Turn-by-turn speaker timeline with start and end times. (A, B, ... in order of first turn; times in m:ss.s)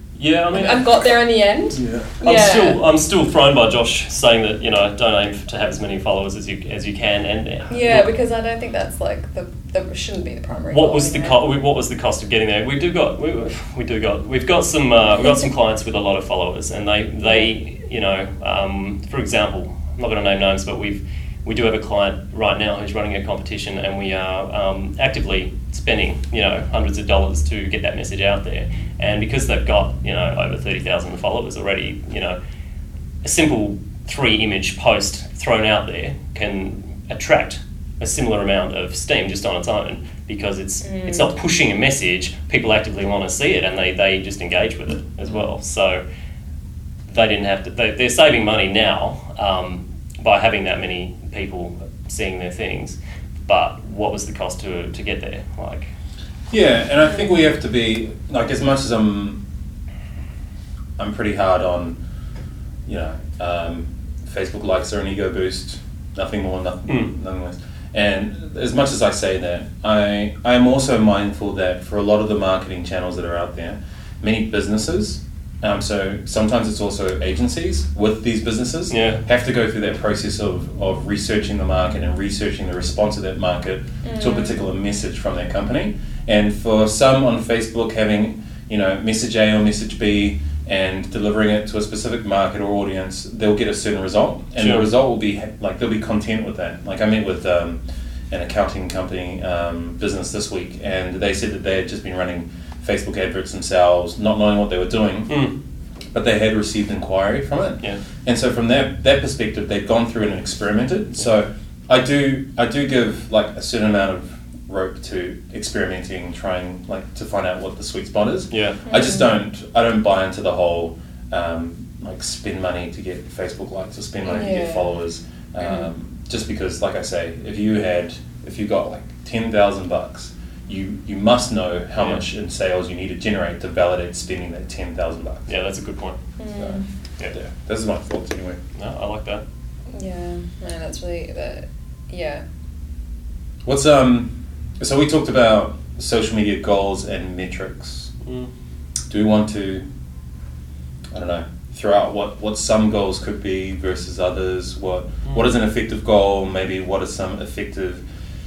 0:00.2-0:00.9 A
0:00.5-0:02.8 B
0:01.7-0:02.1 C
0:02.2-0:08.1 A
0:07.7-0:11.4 B
0:10.7-0:32.4 A
0:15.1-0:15.5 B
0:17.2-0:17.5 B
0:33.2-0:46.0 A
0:40.8-0:41.3 B
0:47.1-0:55.9 A
0:56.5-0:59.4 C
1:01.0-1:02.0 C
1:02.8-1:45.4 C
1:06.9-1:07.1 A
1:18.9-1:19.2 A
1:24.0-1:24.6 B
1:34.6-1:34.9 A
1:45.3-1:45.5 A
1:46.1-2:15.5 C
1:58.5-1:58.8 A
1:58.9-1:59.3 B
2:04.2-2:04.9 B
2:05.6-2:05.9 B
2:12.0-2:12.2 A
2:15.5-2:16.2 A
2:16.4-2:16.8 B
2:17.3-2:18.6 C
2:18.7-2:19.4 A
2:19.9-2:22.4 B
2:23.6-2:28.1 C
2:28.2-2:28.5 A
2:29.1-2:29.8 C
2:31.1-2:38.0 C